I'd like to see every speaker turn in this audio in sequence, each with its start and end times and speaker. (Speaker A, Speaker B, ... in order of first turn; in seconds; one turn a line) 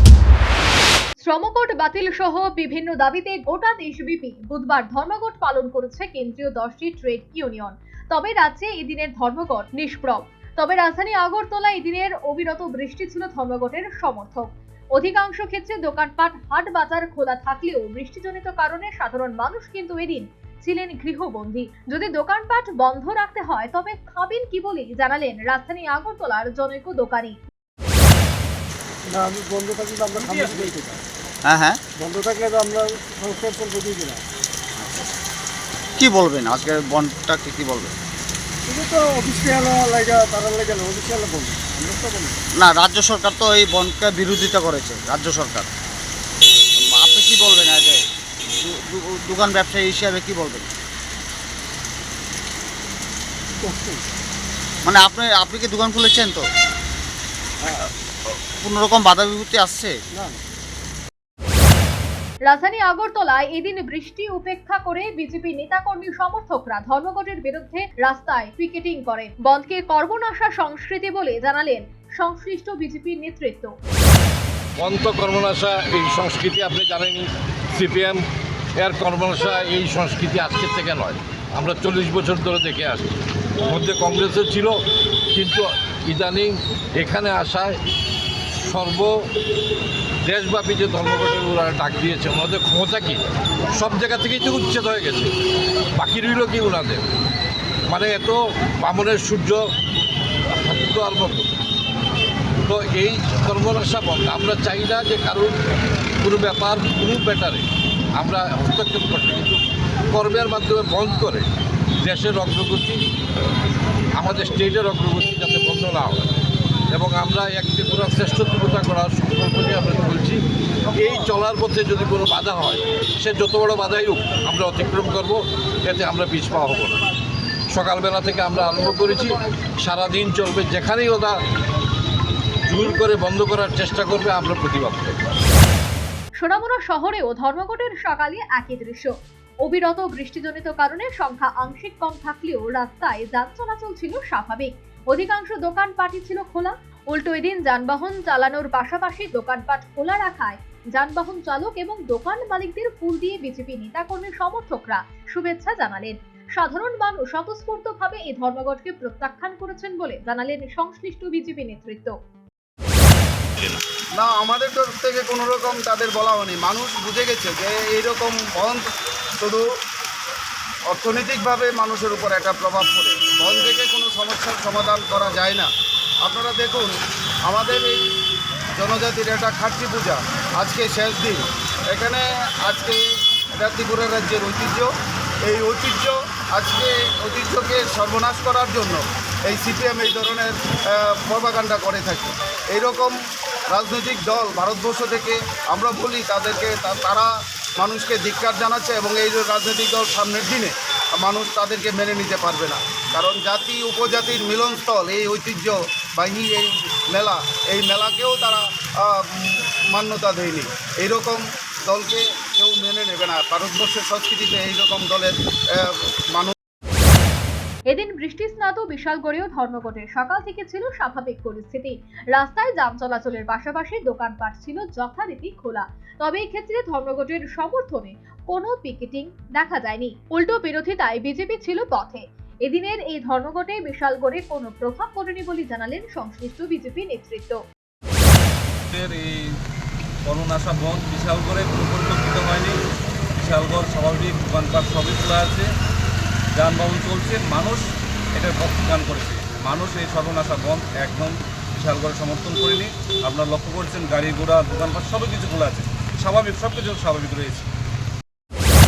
Speaker A: 1.2-27.3
Speaker B: 29.1-31.0
Speaker C: 31.5-31.8
Speaker B: 31.9-34.2
Speaker C: 34.8-35.1
Speaker C: 36.0-38.0
Speaker B: 38.7-42.4
Speaker C: 42.6-45.7
Speaker C: 46.8-50.7
Speaker B: 53.6-54.0
Speaker C: 54.9-56.5
Speaker C: 57.7-60.0
Speaker A: 62.5-73.7
Speaker D: 74.8-78.2
Speaker D: 78.8-83.1
Speaker D: 83.7-84.8
Speaker D: 85.3-87.8
Speaker D: 88.6-89.1
Speaker D: 90.2-95.3
Speaker D: 95.9-97.0
Speaker D: 97.9-99.6
Speaker D: 100.5-101.5
Speaker D: 102.7-105.5
Speaker D: 106.2-107.7
Speaker D: 108.2-109.6
Speaker D: 110.1-111.5
Speaker D: 112.0-113.0
Speaker D: 114.2-116.2
Speaker D: 116.9-120.4
Speaker D: 120.9-127.0
Speaker D: 127.7-131.4
Speaker D: 132.7-135.2
Speaker A: 136.4-139.1
Speaker A: 139.6-162.2
Speaker E: 164.2-168.8
Speaker E: 170.9-175.7
Speaker E: 176.2-176.9
Speaker E: 177.5-178.0
Speaker E: 178.8-183.0
Speaker E: 183.6-184.9
Speaker E: 185.5-193.2
Speaker E: 193.7-216.5
Speaker A: 217.9-237.6
Speaker F: 238.9-239.3
Speaker F: 240.3-242.7
Speaker F: 243.4-245.7
Speaker F: 246.6-247.8
Speaker F: 248.3-257.7